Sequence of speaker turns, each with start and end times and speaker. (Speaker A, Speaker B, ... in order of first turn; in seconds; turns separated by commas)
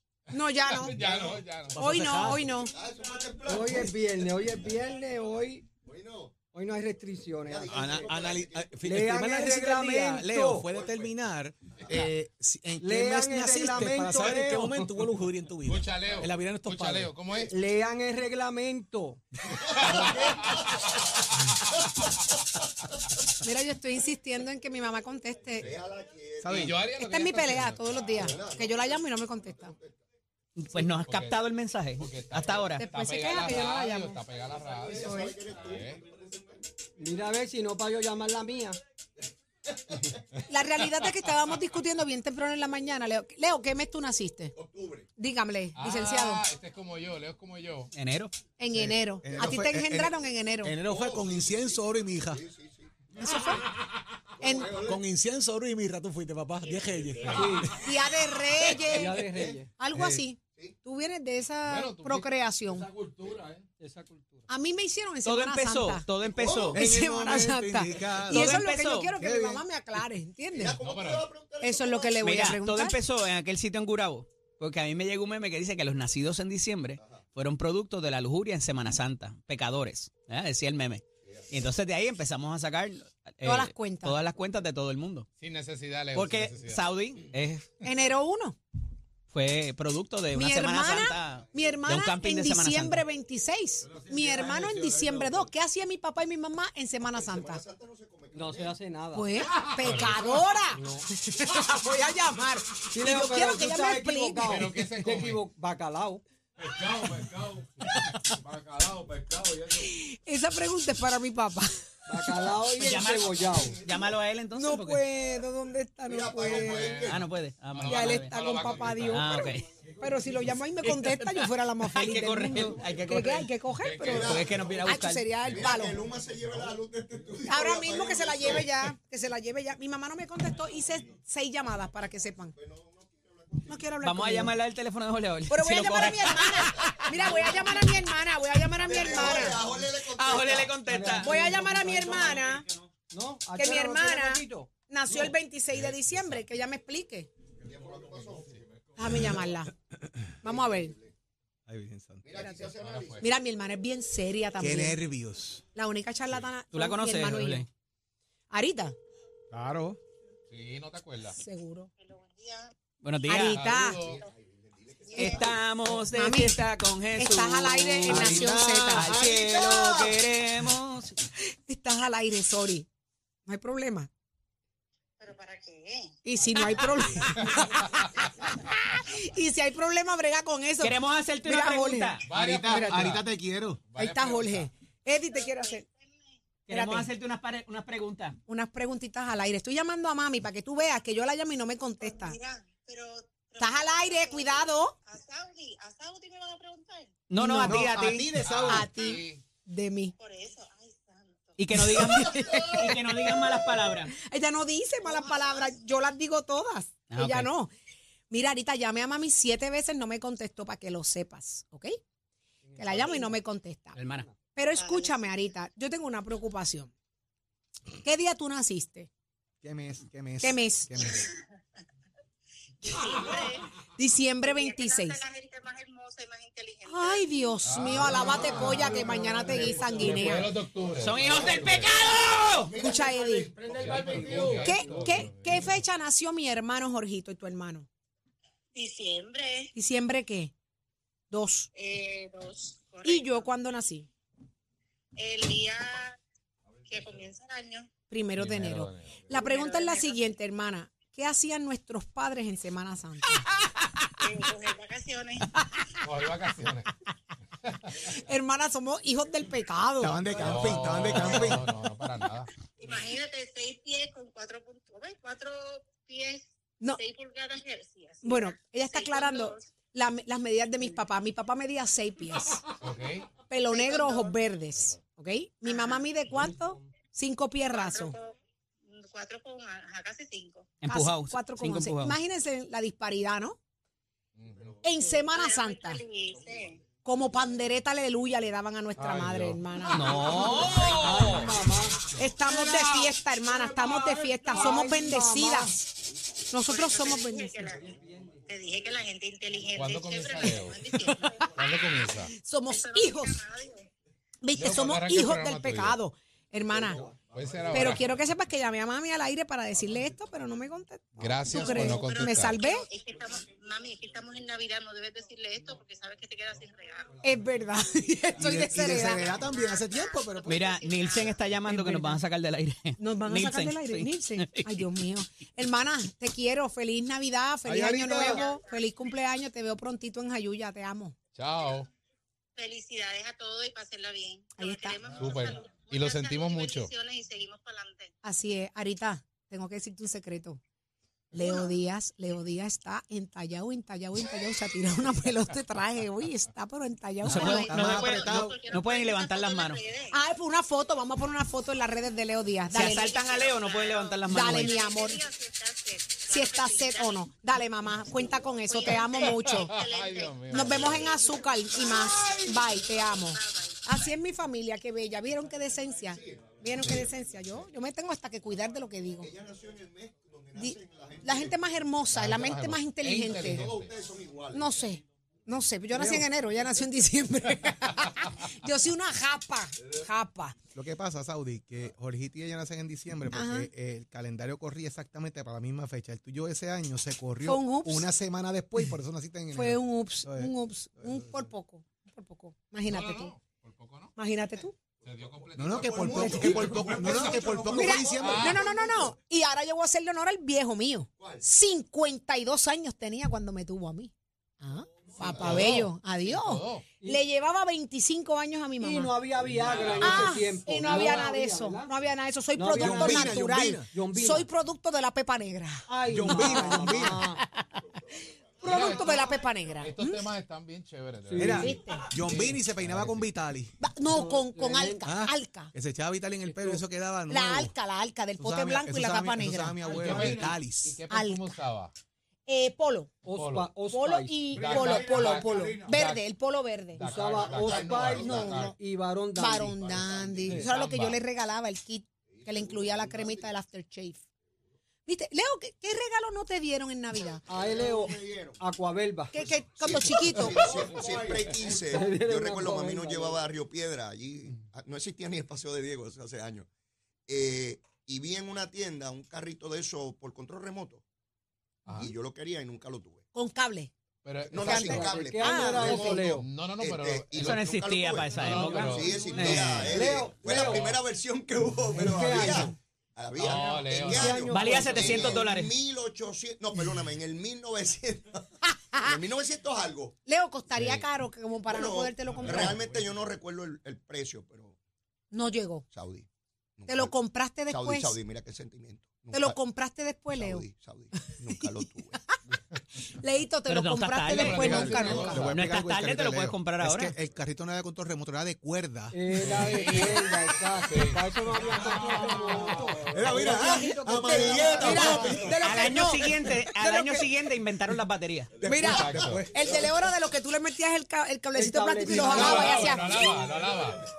Speaker A: 0.3-1.0, Speaker B: 0.7-1.8, Speaker C: 0.9-1.4, Speaker D: 1.7-2.5, Speaker A: 1.8-2.7, Speaker C: 2.1-4.1, Speaker E: 3.4-5.7, Speaker C: 5.8-6.4, Speaker E: 6.5-8.0, Speaker C: 7.4-8.8, Speaker D: 7.7-17.1, Speaker E: 8.8-10.7, Speaker C: 10.7-11.1, Speaker E: 12.8-14.9, Speaker B: 15.6-17.5, Speaker E: 17.5-19.2, Speaker C: 19.5-22.2, Speaker B: 19.7-20.6, Speaker A: 23.4-25.7, Speaker C: 25.6-26.8, Speaker D: 26.4-26.8, Speaker B: 26.5-28.0, Speaker A: 27.0-29.7, Speaker C: 28.1-30.0, Speaker F: 30.6-32.8, Speaker B: 31.0-31.4, Speaker B: 32.0-36.0, Speaker A: 32.8-34.2, Speaker C: 34.5-36.6, Speaker A: 34.9-35.4, Speaker E: 37.0-38.8, Speaker C: 39.9-40.2, Speaker A: 40.5-44.5, Speaker C: 44.5-45.1, Speaker A: 45.2-46.4, Speaker B: 45.8-47.9, Speaker F: 47.9-48.3, Speaker A: 48.6-50.8, Speaker D: 48.7-52.4, Speaker C: 50.8-53.4, Speaker A: 53.2-53.7, Speaker C: 54.4-55.0, Speaker A: 54.4-54.8, Speaker D: 54.8-57.7, Speaker G: 56.6-57.4, Speaker B: 57.2-57.6, Speaker E: 57.3-57.8, Speaker A: 57.7-59.2, Speaker E: 58.9-59.7, Speaker C: 59.2-59.6, Speaker A: 59.8-62.9, Speaker B: 61.6-62.3, Speaker H: 62.7-63.7, Speaker E: 63.8-64.4, Speaker A: 64.5-66.0, Speaker F: 65.2-66.8, Speaker C: 66.2-66.8, Speaker D: 66.7-69.6, Speaker A: 66.7-70.8, Speaker F: 68.3-69.1, Speaker C: 70.5-72.5, Speaker B: 70.8-71.3, Speaker A: 71.6-73.0, Speaker F: 72.2-85.3, Speaker A: 83.4-84.2, Speaker B: 85.4-86.8, Speaker F: 86.1-87.7, Speaker A: 87.8-88.6, Speaker F: 89.3-93.0, Speaker A: 90.3-97.6, Speaker H: 93.8-95.5, Speaker C: 97.1-98.8, Speaker E: 98.3-99.3, Speaker A: 99.1-104.5, Speaker B: 99.8-100.3, Speaker E: 100.7-101.1, Speaker E: 102.9-106.2, Speaker B: 104.4-105.4, Speaker H: 106.6-109.9, Speaker A: 109.8-112.3, Speaker E: 112.1-113.8, Speaker F: 112.8-115.0, Speaker A: 114.5-117.1, Speaker C: 116.0-117.3, Speaker B: 116.4-119.4, Speaker F: 117.1-118.3, Speaker A: 117.9-126.0, Speaker F: 119.0-119.6, Speaker H: 119.8-120.6, Speaker F: 120.8-123.5, Speaker B: 123.8-124.5, Speaker C: 124.0-124.9, Speaker F: 124.1-125.3, Speaker B: 125.4-125.9, Speaker C: 125.5-128.9, Speaker A: 127.5-132.5, Speaker C: 132.5-133.8, Speaker A: 133.7-134.5, Speaker F: 134.0-137.1, Speaker A: 135.5-139.6, Speaker C: 136.7-137.7, Speaker C: 138.8-140.9, Speaker F: 140.1-141.3, Speaker E: 140.8-142.4, Speaker A: 141.2-142.7, Speaker E: 143.1-145.3, Speaker A: 143.5-147.3, Speaker C: 147.6-148.6, Speaker H: 147.7-148.6, Speaker A: 149.0-149.7, Speaker A: 150.4-150.9, Speaker C: 150.4-151.1, Speaker D: 151.7-152.7, Speaker C: 152.2-153.2, Speaker A: 152.4-152.7, Speaker B: 152.8-153.2, Speaker A: 153.2-155.0, Speaker D: 154.6-155.6, Speaker A: 155.7-157.7, Speaker F: 156.7-157.7, Speaker A: 158.5-158.9, Speaker D: 159.5-160.0, Speaker B: 160.5-161.4, Speaker A: 161.3-161.9, Speaker G: 162.0-162.7, Speaker F: 163.0-163.6, Speaker A: 163.2-164.0, Speaker B: 163.4-164.2, Speaker C: 163.8-166.0, Speaker G: 165.1-165.4, Speaker A: 165.2-165.4, Speaker F: 165.2-171.1, Speaker A: 166.1-166.6, Speaker A: 167.1-169.2, Speaker D: 168.1-170.2, Speaker A: 171.4-172.9, Speaker A: 173.4-174.1, Speaker G: 175.2-177.0, Speaker A: 176.2-182.2, Speaker B: 177.2-178.2, Speaker F: 180.8-182.3, Speaker B: 182.3-183.2, Speaker D: 182.3-183.8, Speaker A: 182.7-183.1, Speaker B: 183.9-184.7, Speaker A: 183.9-185.8, Speaker G: 185.3-186.2, Speaker F: 186.7-188.4, Speaker A: 186.7-187.1, Speaker A: 188.5-192.4, Speaker G: 192.0-197.2, Speaker A: 193.6-194.9, Speaker F: 197.3-198.3, Speaker A: 197.3-197.8, Speaker D: 197.5-198.9, Speaker B: 198.4-199.4, Speaker A: 198.7-200.1, Speaker G: 200.2-201.6, Speaker F: 201.6-204.1, Speaker A: 201.7-203.6, Speaker A: 204.1-207.7, Speaker G: 205.0-205.7, Speaker F: 207.1-207.5, Speaker A: 208.3-212.0, Speaker E: 212.6-213.3, Speaker A: 212.8-214.0, Speaker F: 213.9-214.3, Speaker E: 214.1-214.3, Speaker A: 214.5-216.9, Speaker G: 214.8-215.2, Speaker A: 218.0-219.1, Speaker D: 219.6-221.3, Speaker A: 220.4-221.2, Speaker G: 222.8-223.7, Speaker A: 223.9-225.2, Speaker G: 224.4-227.4, Speaker A: 226.8-230.6, Speaker B: 227.6-229.1, Speaker H: 227.9-230.3, Speaker C: 229.4-230.2, Speaker B: 229.9-232.0, Speaker F: 230.9-232.7, Speaker C: 231.2-231.8, Speaker C: 232.6-234.4, Speaker A: 232.8-233.5, Speaker H: 233.0-235.2, Speaker B: 233.8-235.8, Speaker A: 234.5-237.9, Speaker G: 238.7-239.7, Speaker A: 239.7-240.5, Speaker A: 241.3-241.7, Speaker G: 241.7-243.4, Speaker A: 243.0-244.1, Speaker G: 245.2-246.2, Speaker G: 246.8-247.9, Speaker A: 248.1-253.4, Speaker B: 248.3-249.3, Speaker G: 249.3-250.2, Speaker G: 254.2-255.5, Speaker A: 255.6-255.8, Speaker B: 256.0-256.9, Speaker B: 257.6-258.0, Speaker A: 258.0-260.3, Speaker D: 260.0-261.7, Speaker B: 260.4-262.5, Speaker G: 262.8-269.7, Speaker A: 268.2-272.6, Speaker B: 272.8-273.2, Speaker A: 273.5-278.2, Speaker G: 273.6-274.3, Speaker G: 275.6-276.1, Speaker G: 277.7-280.7, Speaker F: 280.8-282.2, Speaker A: 280.9-283.6, Speaker B: 284.4-284.8, Speaker A: 284.8-286.0, Speaker G: 285.1-286.8, Speaker A: 287.0-290.7, Speaker B: 289.0-289.6, Speaker F: 289.9-291.6, Speaker G: 290.7-291.0, Speaker E: 290.9-292.1, Speaker A: 292.1-295.8, Speaker H: 292.4-292.8, Speaker H: 293.4-294.8, Speaker E: 294.5-295.8, Speaker A: 296.5-297.7, Speaker G: 296.6-297.9, Speaker E: 297.6-298.4, Speaker G: 298.4-302.0, Speaker B: 299.7-300.9, Speaker B: 301.5-302.3, Speaker A: 302.4-303.4, Speaker G: 302.7-303.9, Speaker A: 304.4-307.1, Speaker B: 304.6-306.0, Speaker B: 307.3-308.1, Speaker A: 307.7-312.8, Speaker B: 311.2-312.6, Speaker G: 311.6-317.2, Speaker A: 317.2-319.3, Speaker D: 318.4-320.6, Speaker G: 319.2-321.5, Speaker F: 320.4-324.9, Speaker A: 321.7-322.2, Speaker A: 323.0-331.1, Speaker D: 327.7-328.3, Speaker G: 328.1-328.9, Speaker B: 331.3-331.9, Speaker G: 332.6-338.1, Speaker A: 334.6-335.0, Speaker B: 335.1-336.9, Speaker A: 338.2-340.6, Speaker A: 341.3-347.8, Speaker G: 341.3-341.7, Speaker D: 347.2-348.6, Speaker F: 347.2-349.8, Speaker G: 347.4-350.2, Speaker A: 350.1-353.1, Speaker F: 352.7-354.8, Speaker G: 352.8-357.2, Speaker A: 354.3-355.2, Speaker A: 356.3-359.8, Speaker G: 358.6-363.8, Speaker B: 359.2-361.1, Speaker A: 360.5-369.3, Speaker C: 366.1-367.1, Speaker C: 369.2-371.6, Speaker A: 370.6-373.7, Speaker B: 372.1-373.9, Speaker C: 373.3-374.7, Speaker A: 374.5-380.6, Speaker E: 375.9-376.3, Speaker D: 380.7-391.3, Speaker A: 383.3-383.7, Speaker A: 387.4-388.1, Speaker A: 389.5-393.3, Speaker B: 392.9-394.1, Speaker A: 394.2-394.7, Speaker B: 395.0-397.0, Speaker C: 395.0-399.0, Speaker D: 395.6-398.6, Speaker A: 396.1-396.6, Speaker H: 397.0-397.5, Speaker A: 397.7-409.1, Speaker B: 398.1-398.6, Speaker C: 401.2-401.4, Speaker C: 405.2-405.8, Speaker B: 405.3-406.9, Speaker E: 408.8-411.9, Speaker H: 409.4-409.9, Speaker B: 409.6-410.3, Speaker A: 409.9-417.8, Speaker E: 412.5-414.5, Speaker D: 412.8-413.9, Speaker E: 415.9-417.4, Speaker D: 416.1-417.2, Speaker A: 418.6-420.2, Speaker B: 418.6-423.3, Speaker E: 421.3-421.8, Speaker D: 421.4-423.8, Speaker A: 421.4-422.1, Speaker A: 423.8-425.7, Speaker E: 424.1-425.1, Speaker D: 425.0-427.7, Speaker E: 426.5-426.8, Speaker A: 427.3-429.8, Speaker D: 428.4-431.0, Speaker H: 429.8-430.6, Speaker B: 429.9-431.9, Speaker A: 431.1-431.6, Speaker A: 432.5-433.1, Speaker E: 433.2-434.5, Speaker B: 433.3-433.8, Speaker A: 433.9-437.1, Speaker H: 434.5-436.0, Speaker B: 434.5-436.2, Speaker B: 436.9-438.7, Speaker E: 437.0-439.8, Speaker C: 437.1-438.7, Speaker A: 438.2-438.7, Speaker A: 439.3-444.2, Speaker C: 439.7-440.7, Speaker B: 440.6-441.2, Speaker C: 442.3-443.5, Speaker A: 445.1-447.4, Speaker E: 447.5-449.3, Speaker C: 447.5-448.6, Speaker A: 449.3-450.7, Speaker C: 449.4-456.7, Speaker H: 450.5-451.7, Speaker E: 451.8-453.4, Speaker C: 457.3-461.0, Speaker B: 461.9-462.1, Speaker C: 461.9-463.2, Speaker A: 463.3-463.9, Speaker B: 464.2-465.1, Speaker C: 464.4-478.4, Speaker A: 464.6-466.2, Speaker E: 464.6-466.5, Speaker B: 466.2-467.6, Speaker F: 467.4-470.0, Speaker B: 468.3-469.9, Speaker E: 468.4-471.0, Speaker B: 470.5-470.9, Speaker E: 471.9-472.8, Speaker B: 473.4-474.5, Speaker E: 473.9-475.4, Speaker F: 474.5-475.7, Speaker A: 478.7-479.1, Speaker C: 479.0-480.2, Speaker A: 480.2-482.8, Speaker B: 480.7-481.0, Speaker C: 481.7-484.8, Speaker A: 485.3-485.8, Speaker C: 485.9-487.1, Speaker A: 486.9-488.2, Speaker C: 487.7-489.6, Speaker A: 489.3-490.6, Speaker C: 490.3-492.2, Speaker A: 493.1-495.5, Speaker F: 493.7-497.1, Speaker B: 494.3-495.6, Speaker D: 494.6-499.2, Speaker E: 499.1-506.3, Speaker B: 499.4-500.3, Speaker B: 500.8-501.2, Speaker H: 501.5-503.6, Speaker D: 503.1-505.7, Speaker A: 504.3-507.1, Speaker H: 504.4-505.2, Speaker C: 504.7-505.2, Speaker F: 505.6-508.5, Speaker D: 508.6-509.9, Speaker A: 508.6-513.4, Speaker B: 508.8-509.5, Speaker E: 511.5-512.9, Speaker B: 512.1-514.0, Speaker H: 513.0-513.9